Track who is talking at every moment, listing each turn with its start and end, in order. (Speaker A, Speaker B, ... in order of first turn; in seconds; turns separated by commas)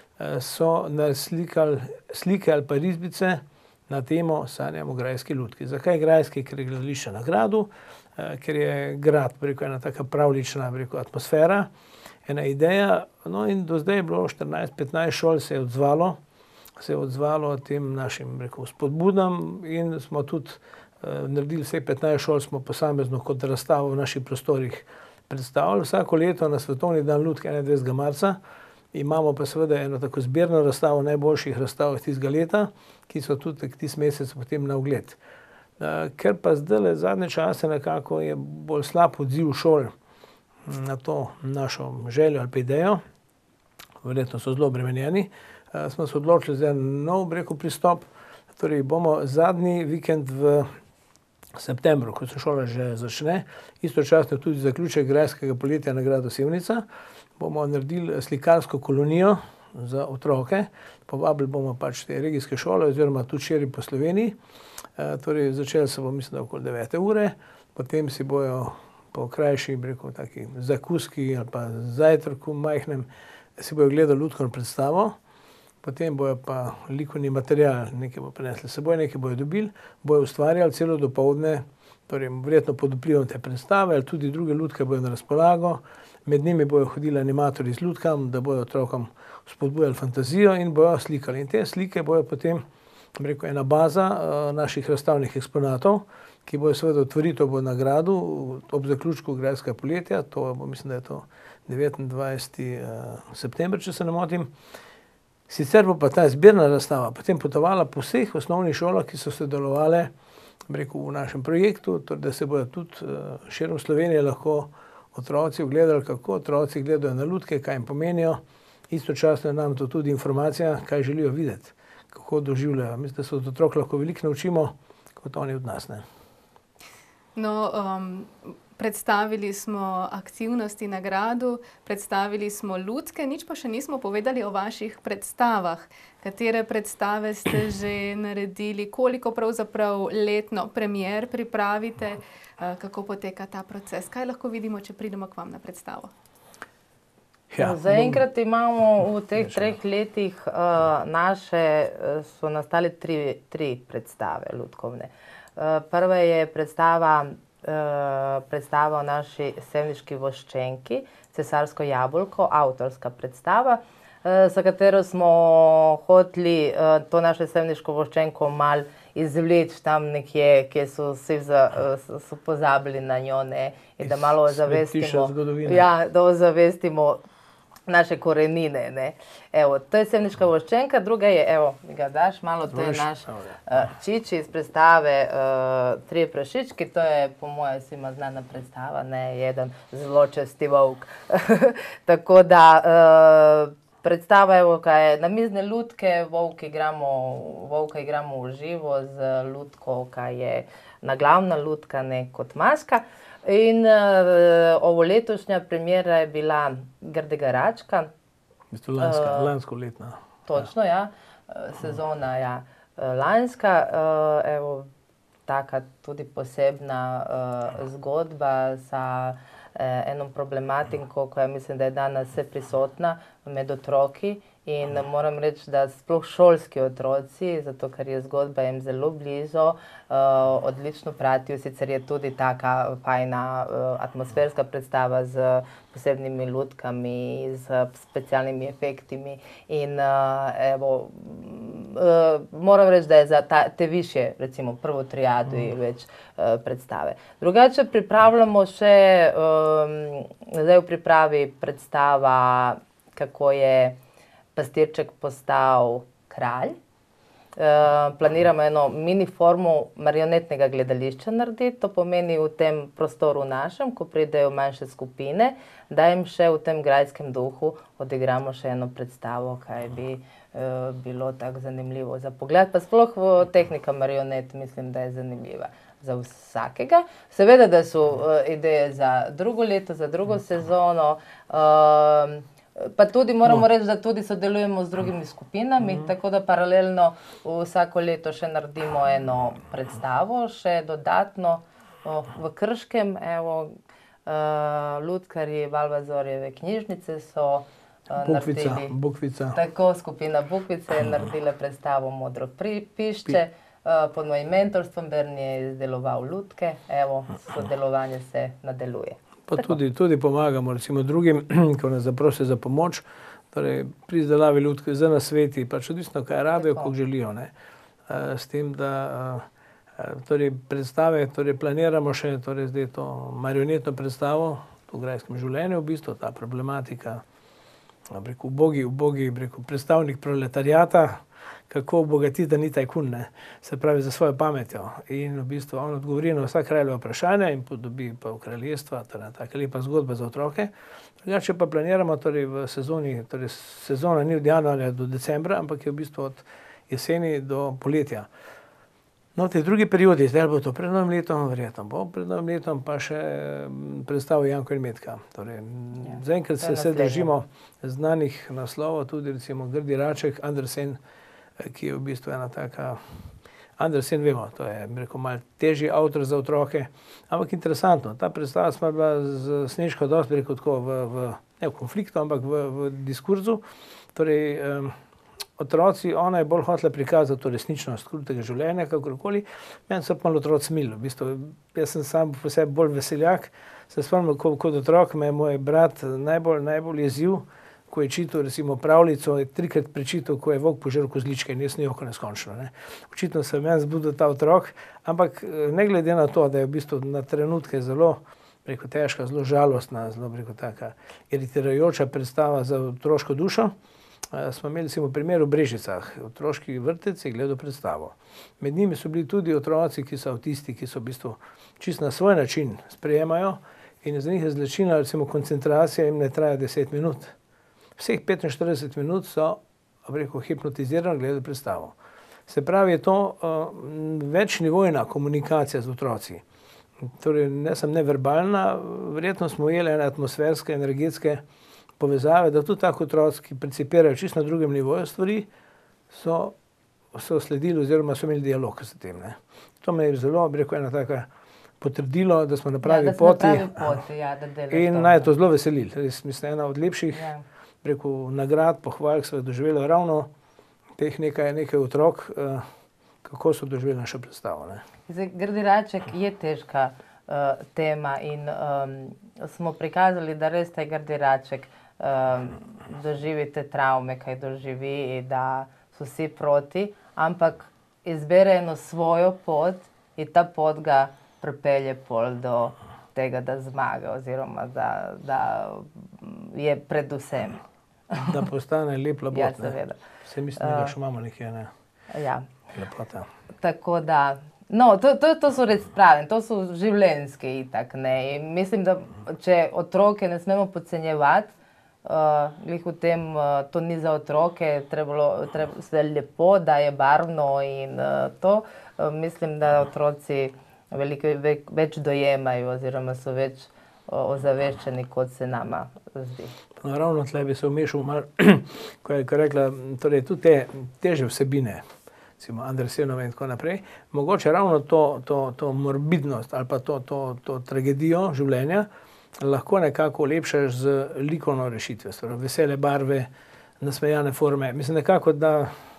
Speaker A: 0.2-11.7, Speaker A: 12.3-16.2, Speaker A: 16.8-28.4, Speaker A: 28.9-35.2, Speaker A: 35.8-39.9, Speaker A: 40.6-43.0, Speaker A: 44.0-50.7, Speaker A: 51.6-56.8, Speaker A: 57.4-64.4, Speaker A: 65.0-75.2, Speaker A: 75.8-92.6, Speaker A: 93.2-104.5, Speaker A: 105.5-110.1, Speaker A: 110.7-126.0, Speaker B: 127.4-146.1, Speaker A: 147.5-148.3, Speaker C: 147.6-177.2, Speaker A: 149.4-149.7, Speaker A: 174.0-175.9, Speaker C: 177.9-208.1, Speaker A: 182.7-183.6, Speaker A: 208.7-210.2, Speaker C: 209.0-209.5, Speaker C: 210.5-214.9, Speaker C: 215.5-254.0, Speaker C: 254.6-256.8, Speaker C: 257.6-299.0, Speaker A: 298.2-299.6, Speaker C: 299.5-309.7, Speaker A: 309.5-317.5, Speaker C: 316.6-316.9, Speaker A: 318.1-319.5, Speaker A: 320.0-327.2, Speaker A: 328.1-340.7, Speaker A: 341.2-348.3, Speaker A: 349.4-361.0, Speaker C: 356.0-357.3, Speaker A: 361.6-363.2, Speaker A: 363.8-373.6, Speaker A: 374.1-375.0, Speaker A: 375.6-403.7, Speaker A: 404.3-417.4, Speaker A: 418.0-421.9, Speaker A: 422.5-426.4, Speaker A: 427.1-431.4, Speaker A: 432.0-435.5, Speaker A: 436.1-436.6, Speaker A: 437.1-441.3, Speaker A: 441.8-443.9, Speaker C: 442.8-445.3, Speaker A: 444.7-447.3, Speaker C: 447.1-447.4, Speaker A: 447.8-450.3, Speaker A: 451.0-452.7, Speaker A: 453.2-454.8, Speaker C: 455.1-478.4, Speaker A: 478.2-481.7, Speaker C: 479.3-480.0, Speaker C: 480.6-480.9, Speaker C: 482.1-482.5, Speaker A: 482.7-483.3, Speaker C: 483.6-506.5, Speaker A: 506.8-511.9, Speaker A: 512.4-518.9, Speaker A: 519.4-523.3, Speaker A: 523.8-525.8